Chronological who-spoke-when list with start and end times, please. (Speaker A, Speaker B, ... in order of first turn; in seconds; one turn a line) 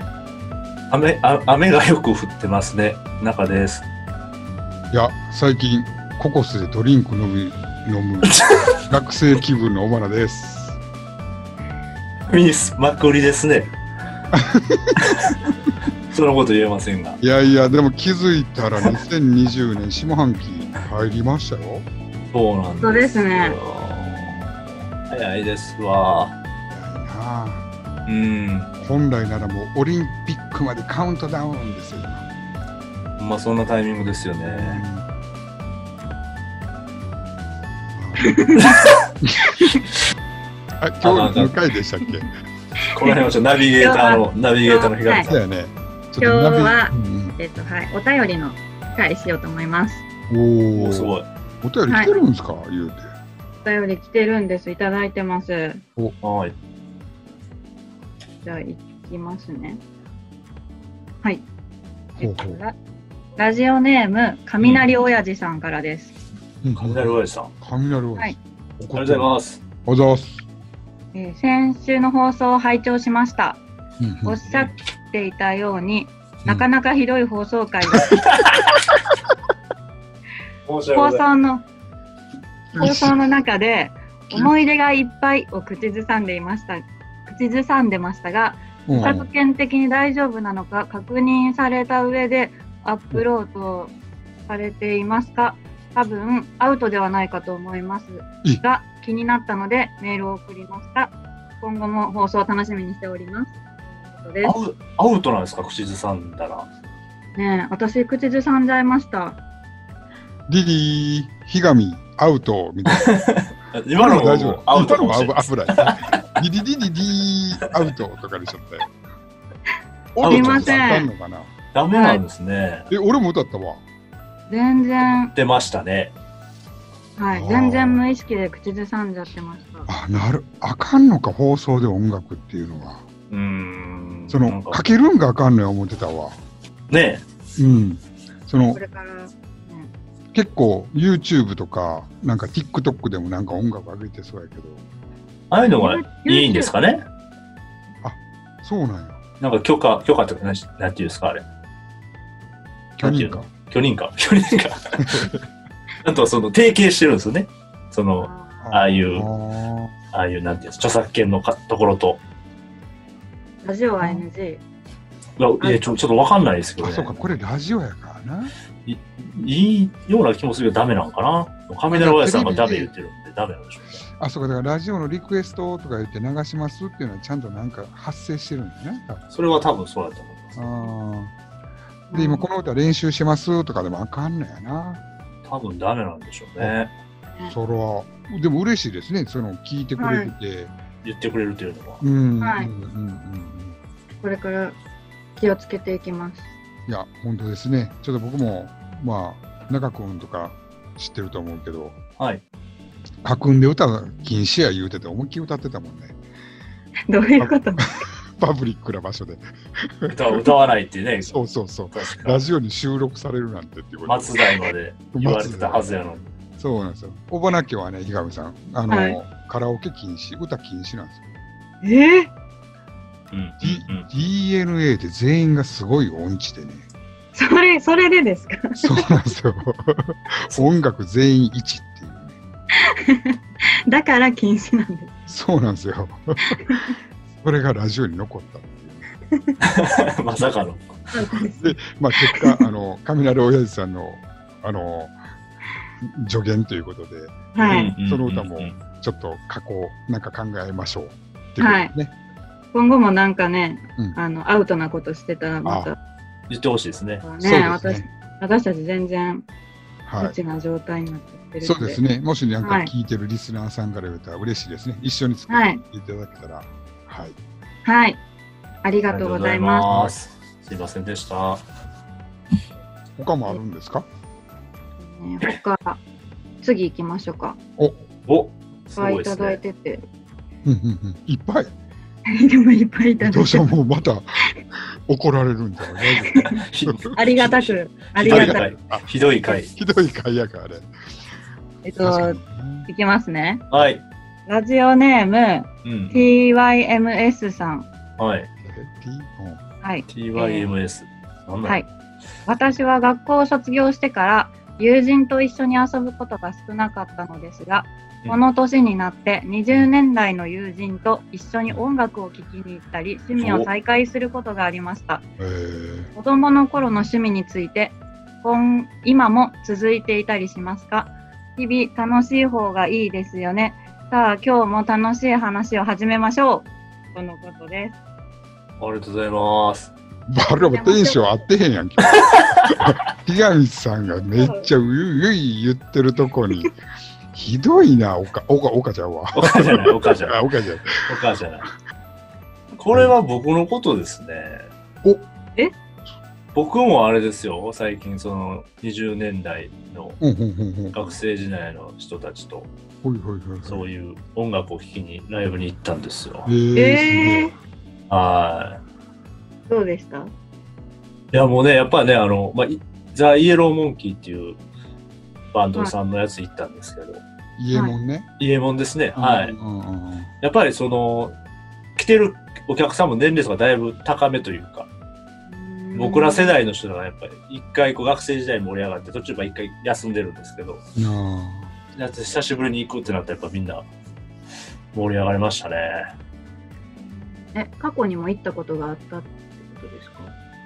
Speaker A: 0.9-3.9
Speaker B: 4.9-10.8
Speaker A: 8.3-8.6
Speaker A: 12.3-13.7
Speaker B: 14.3-15.1
Speaker A: 15.0-15.4
Speaker A: 16.1-17.2
Speaker B: 17.2-21.9
Speaker A: 22.3-24.4
Speaker C: 22.8-23.6
Speaker B: 24.0-24.5
Speaker A: 25.1-26.4
Speaker B: 26.7-27.7
Speaker A: 28.1-28.7
Speaker B: 28.8-32.2
Speaker A: 33.2-34.9
Speaker B: 34.5-35.0
Speaker B: 37.9-38.6
Speaker C: 38.2-38.8
Speaker A: 38.6-39.0
Speaker B: 39.2-39.6
Speaker B: 40.8-42.3
Speaker A: 41.0-41.6
Speaker A: 42.9-45.4
Speaker C: 43.8-45.3
Speaker B: 45.2-47.4
Speaker C: 46.2-50.0
Speaker B: 50.3-53.1
Speaker A: 50.8-51.3
Speaker C: 51.9-52.1
Speaker C: 53.6-55.8
Speaker A: 56.2-56.5
Speaker C: 58.4-59.8
Speaker C: 62.2-62.8
Speaker B: 62.2-62.6
Speaker C: 63.4-66.2
Speaker A: 64.6-64.9
Speaker B: 66.6-69.3
Speaker A: 66.8-67.5
Speaker A: 69.0-69.6
Speaker B: 69.9-70.4
Speaker C: 71.1-73.6
Speaker B: 74.0-74.4
Speaker C: 74.2-78.2
Speaker A: 74.5-74.7
Speaker A: 77.9-78.6
Speaker A: 80.7-81.2
Speaker C: 80.9-81.7
Speaker B: 82.7-83.1
Speaker C: 82.8-93.9
Speaker B: 88.9-89.3
Speaker C: 94.5-104.6
Speaker A: 104.4-106.7
Speaker C: 107.3-109.4
Speaker B: 110.5-113.2
Speaker A: 112.9-116.2
Speaker B: 114.0-118.9
Speaker B: 120.2-121.5
Speaker A: 120.2-121.0
Speaker C: 120.2-121.1
Speaker A: 121.7-122.9
Speaker C: 121.9-122.2
Speaker B: 122.9-123.8
Speaker C: 124.5-125.3
Speaker A: 125.3-126.1
Speaker C: 127.2-129.9
Speaker B: 127.3-128.0
Speaker B: 129.9-133.0
Speaker A: 133.3-134.8
Speaker B: 134.3-136.4
Speaker A: 136.9-137.2
Speaker B: 137.6-138.8
Speaker C: 138.7-139.9
Speaker B: 140.3-144.8
Speaker A: 145.5-147.0
Speaker C: 145.7-146.7
Speaker B: 148.0-149.2
Speaker A: 149.4-151.4
Speaker B: 153.0-153.5
Speaker A: 153.0-155.3
Speaker B: 155.0-155.4
Speaker A: 156.0-159.3
Speaker C: 158.2-158.7
Speaker B: 158.6-159.9
Speaker A: 160.1-162.2
Speaker C: 163.6-164.6
Speaker A: 165.4-167.3
Speaker C: 165.6-166.0
Speaker B: 166.8-168.5
Speaker A: 168.9-174.0
Speaker B: 171.9-172.9
Speaker B: 174.2-179.2
Speaker A: 179.3-180.6
Speaker B: 180.6-181.3
Speaker C: 182.1-182.5
Speaker B: 182.1-185.0
Speaker A: 185.4-186.9
Speaker B: 187.5-190.7
Speaker C: 190.0-190.3
Speaker A: 191.0-192.0
Speaker B: 192.0-193.8
Speaker C: 192.4-192.7
Speaker C: 194.2-194.8
Speaker C: 195.4-196.5
Speaker B: 196.9-202.0
Speaker B: 203.2-206.2
Speaker C: 207.1-208.0
Speaker B: 208.4-210.4
Speaker A: 210.1-211.4
Speaker B: 211.2-214.4
Speaker A: 211.9-212.4
Speaker A: 214.1-216.3
Speaker B: 215.1-215.9
Speaker B: 216.6-221.3
Speaker C: 218.9-219.2
Speaker C: 221.8-222.3
Speaker A: 223.3-224.1
Speaker B: 223.6-226.9
Speaker C: 227.3-228.8
Speaker B: 228.8-232.4
Speaker C: 233.1-233.4
Speaker C: 233.9-235.1
Speaker B: 235.3-236.7
Speaker C: 236.6-236.9
Speaker B: 237.4-239.1
Speaker C: 239.3-239.6
Speaker A: 239.7-241.0
Speaker C: 241.1-242.6
Speaker B: 241.6-245.2
Speaker B: 246.0-252.1
Speaker C: 247.5-247.9
Speaker A: 247.6-248.8
Speaker C: 251.6-251.9
Speaker C: 252.7-256.0
Speaker B: 255.7-255.9
Speaker A: 256.5-257.2
Speaker C: 257.2-259.5
Speaker B: 257.4-258.1
Speaker B: 260.1-260.4
Speaker C: 260.2-262.0
Speaker B: 261.6-267.4
Speaker C: 262.6-262.9
Speaker C: 265.5-265.8
Speaker C: 267.9-268.2
Speaker C: 268.8-269.9
Speaker A: 269.1-271.6
Speaker B: 269.9-270.2
Speaker B: 273.2-274.1
Speaker C: 275.0-276.0
Speaker C: 276.6-277.6
Speaker A: 278.3-279.6
Speaker C: 279.0-280.1
Speaker B: 280.6-281.7
Speaker C: 282.3-283.7
Speaker B: 283.2-287.1
Speaker A: 286.5-289.7
Speaker C: 287.1-288.7
Speaker B: 288.2-290.9
Speaker C: 291.9-293.6
Speaker B: 292.0-292.9
Speaker A: 293.7-294.0
Speaker C: 294.5-297.9
Speaker A: 295.8-296.3
Speaker A: 298.2-298.5
Speaker B: 298.6-299.6
Speaker C: 299.8-300.7
Speaker A: 300.1-301.9
Speaker C: 302.5-315.2
Speaker A: 313.4-313.7
Speaker B: 315.4-316.1
Speaker C: 316.1-328.0
Speaker A: 328.8-329.9
Speaker B: 330.3-336.7
Speaker C: 330.5-331.3
Speaker C: 334.4-334.7
Speaker B: 337.3-341.1
Speaker A: 339.4-340.4
Speaker A: 341.1-341.7
Speaker A: 342.8-344.6
Speaker B: 342.9-343.1
Speaker A: 346.6-350.2
Speaker B: 350.2-351.2
Speaker A: 350.9-352.7
Speaker B: 353.0-353.9
Speaker A: 353.6-356.5
Speaker B: 356.5-357.5
Speaker C: 356.8-357.5
Speaker A: 358.1-358.8
Speaker C: 359.7-360.3
Speaker A: 361.3-364.6
Speaker A: 365.5-367.2
Speaker B: 367.6-368.3
Speaker A: 368.4-369.5
Speaker B: 369.2-370.3
Speaker A: 370.4-371.4
Speaker A: 372.0-374.9
Speaker C: 375.5-376.6
Speaker A: 375.9-380.8
Speaker B: 381.0-381.7
Speaker A: 382.0-383.9
Speaker A: 384.9-386.0
Speaker C: 387.0-390.3